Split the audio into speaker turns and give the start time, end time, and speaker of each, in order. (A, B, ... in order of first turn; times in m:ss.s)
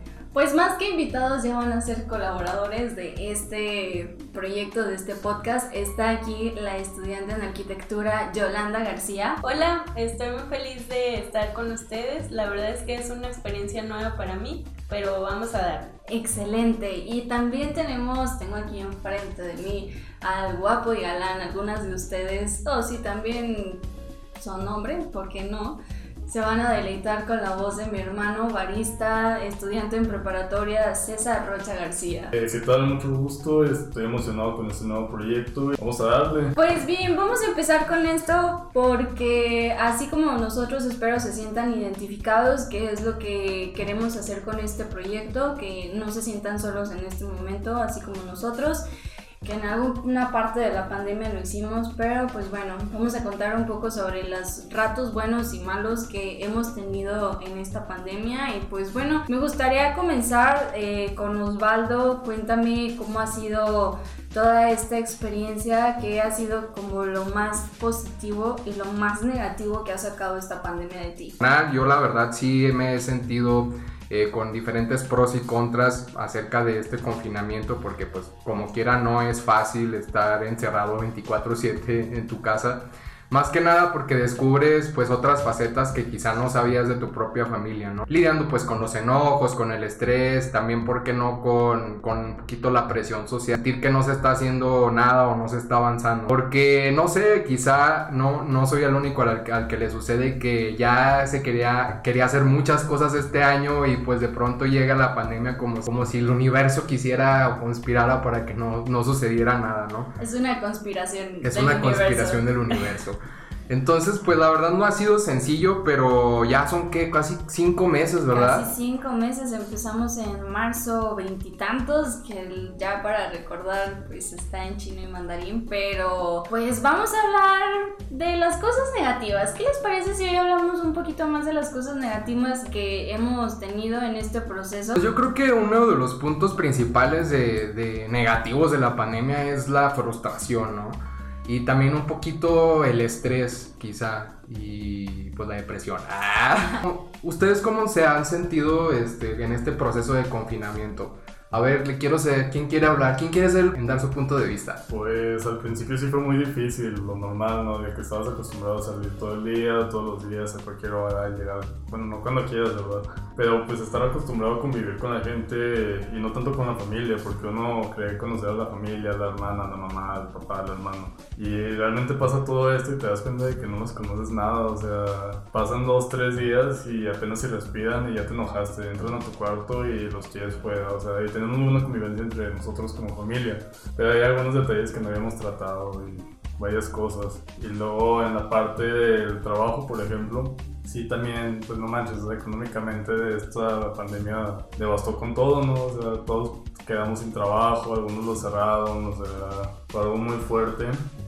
0:00.3-0:09.4 A
0:09.4-0:15.9 B
0:16.1-0:23.8 A
0:24.4-0:32.3 A
0:32.3-0:36.5 C
0:36.5-0:48.8 A
0:49.4-1:11.4 A
1:11.4-1:50.1 D
1:50.2-1:52.8 A
1:51.4-1:53.2 D
1:53.7-1:58.6 D
1:58.3-2:15.0 A
2:15.0-2:34.8 D
2:34.9-3:21.1 C